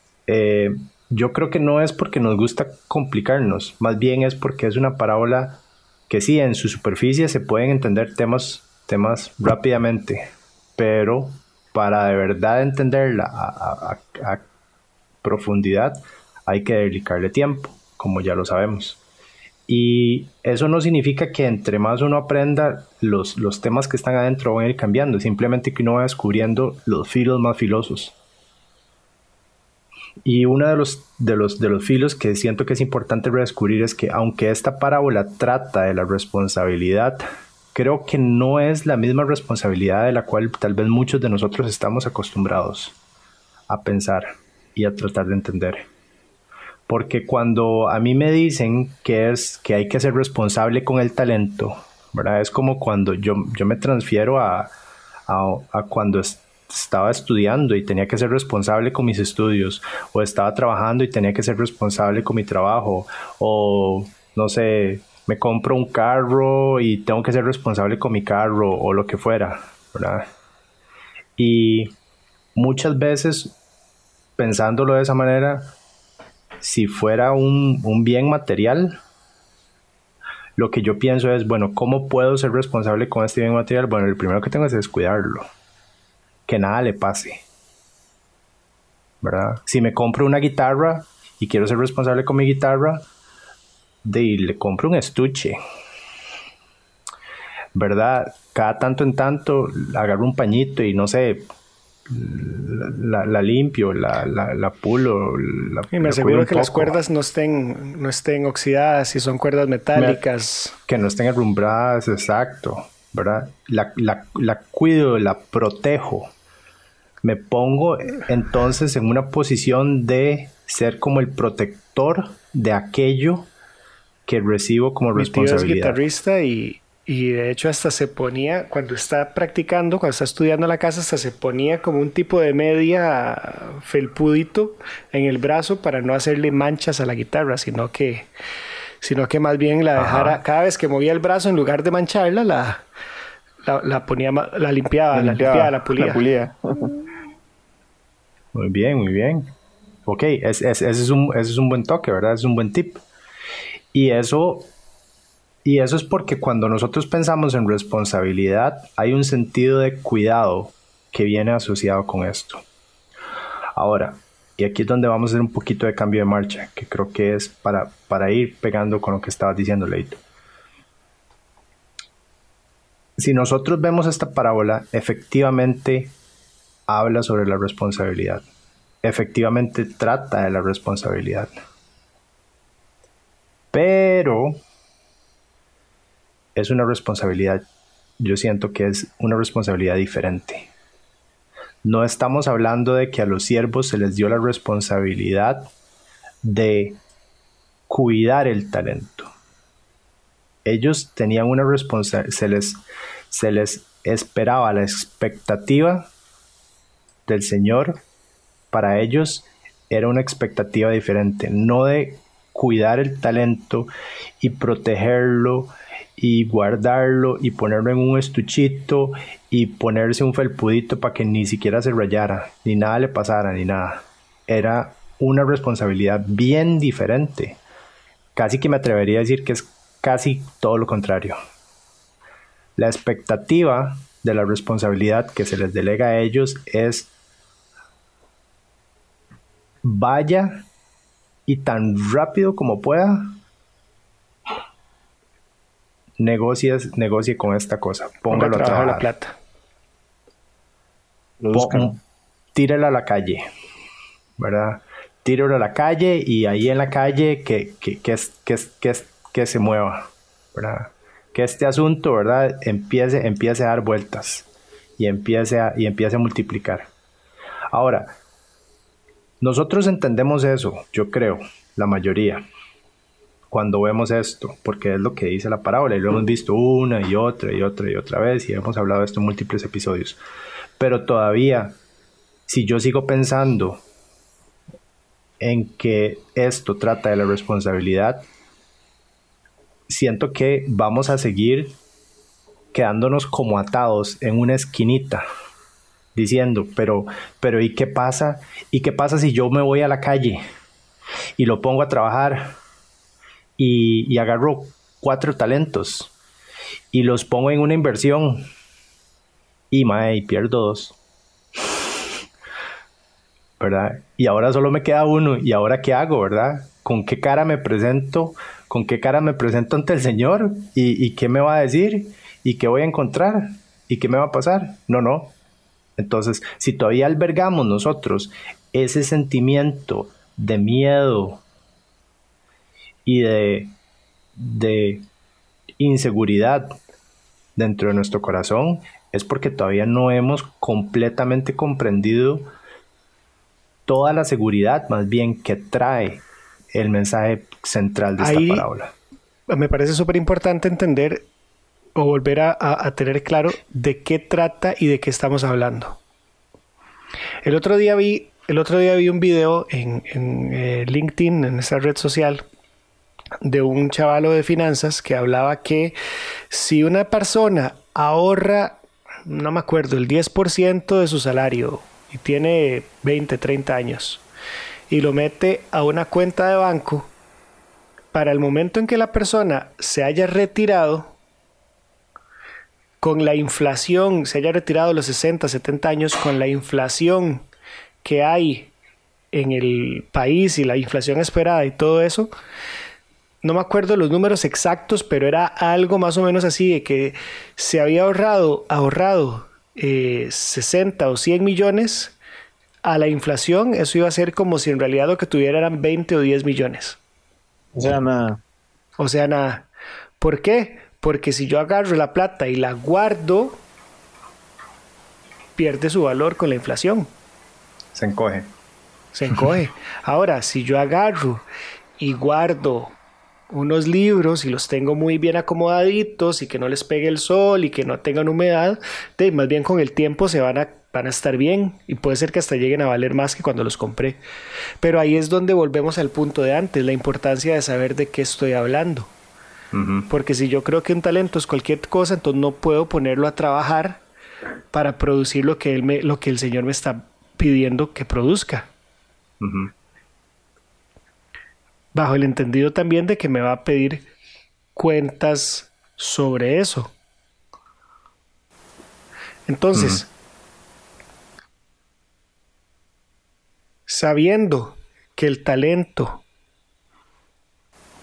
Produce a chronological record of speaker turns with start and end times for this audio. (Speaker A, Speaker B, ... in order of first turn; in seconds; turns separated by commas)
Speaker A: 0.3-14.4, Speaker A: 15.2-19.0, Speaker A: 19.7-28.1, Speaker A: 30.2-43.0, Speaker A: 43.7-45.9, Speaker A: 46.9-54.7, Speaker A: 55.3-70.2, Speaker A: 71.4-71.9, Speaker A: 72.5-73.5, Speaker A: 74.4-75.7, Speaker A: 76.6-79.0, Speaker A: 80.6-85.5, Speaker A: 86.5-87.4, Speaker A: 89.2-93.0, Speaker A: 94.0-95.6, Speaker A: 97.7-101.5, Speaker A: 102.1-107.0, Speaker B: 105.9-110.8, Speaker A: 109.9-110.2, Speaker A: 110.9-116.3, Speaker A: 117.2-123.5, Speaker A: 124.2-126.0, Speaker B: 125.1-138.3, Speaker B: 139.0-142.8, Speaker A: 139.9-140.4, Speaker B: 143.6-146.2, Speaker C: 145.1-146.9, Speaker A: 148.5-149.5, Speaker A: 150.1-153.0, Speaker A: 153.9-154.7, Speaker A: 155.6-162.6, Speaker A: 163.8-170.2, Speaker A: 173.2-176.1, Speaker A: 176.9-178.4, Speaker A: 179.0-181.5, Speaker A: 183.7-184.6, Speaker A: 186.5-187.6, Speaker A: 188.2-190.7, Speaker A: 191.8-195.7, Speaker A: 196.4-197.0, Speaker A: 197.9-199.3, Speaker A: 200.6-206.1, Speaker A: 207.3-208.0, Speaker A: 208.7-213.9, Speaker A: 214.4-227.6, Speaker A: 228.3-231.4, Speaker A: 232.8-237.1, Speaker A: 239.8-240.7, Speaker A: 241.5-243.4, Speaker A: 246.2-249.1, Speaker B: 248.3-249.3, Speaker C: 251.4-252.0, Speaker A: 251.5-251.9, Speaker A: 252.5-253.4, Speaker A: 254.4-266.9, Speaker A: 267.7-268.2, Speaker A: 269.4-272.4, Speaker A: 273.5-280.2, Speaker A: 280.8-281.8, Speaker A: 282.5-283.8, Speaker A: 285.4-288.2, Speaker A: 289.9-291.8, Speaker A: 292.7-295.2, Speaker A: 296.1-300.4, Speaker A: 301.4-302.6, Speaker A: 303.6-306.1, Speaker A: 306.9-308.4, Speaker A: 309.7-310.9, Speaker A: 313.6-325.3, Speaker A: 326.0-331.4, Speaker A: 333.0-333.7, Speaker A: 334.4-335.1, Speaker A: 335.8-336.8, Speaker A: 337.6-342.5, Speaker A: 343.9-348.9, Speaker B: 348.2-348.7, Speaker B: 349.5-351.3, Speaker B: 351.9-356.0, Speaker B: 357.4-362.4, Speaker B: 363.4-365.9, Speaker B: 366.5-374.2, Speaker B: 374.9-377.1, Speaker B: 378.1-381.1, Speaker B: 383.0-387.4, Speaker B: 388.0-388.7, Speaker B: 389.3-392.3, Speaker B: 393.4-402.1, Speaker B: 402.8-407.0, Speaker C: 407.7-408.4, Speaker B: 409.0-409.7, Speaker B: 410.2-413.6, Speaker B: 415.6-417.1, Speaker A: 417.9-418.5, Speaker B: 419.1-421.4, Speaker B: 422.0-422.9, Speaker B: 423.5-434.2, Speaker B: 434.8-439.1, Speaker A: 439.7-440.1, Speaker B: 440.1-444.0, Speaker B: 444.7-448.7, Speaker A: 449.4-449.7, Speaker B: 451.9-454.1, Speaker B: 454.7-456.9, Speaker B: 459.5-460.1, Speaker A: 459.7-460.0, Speaker B: 463.9-466.2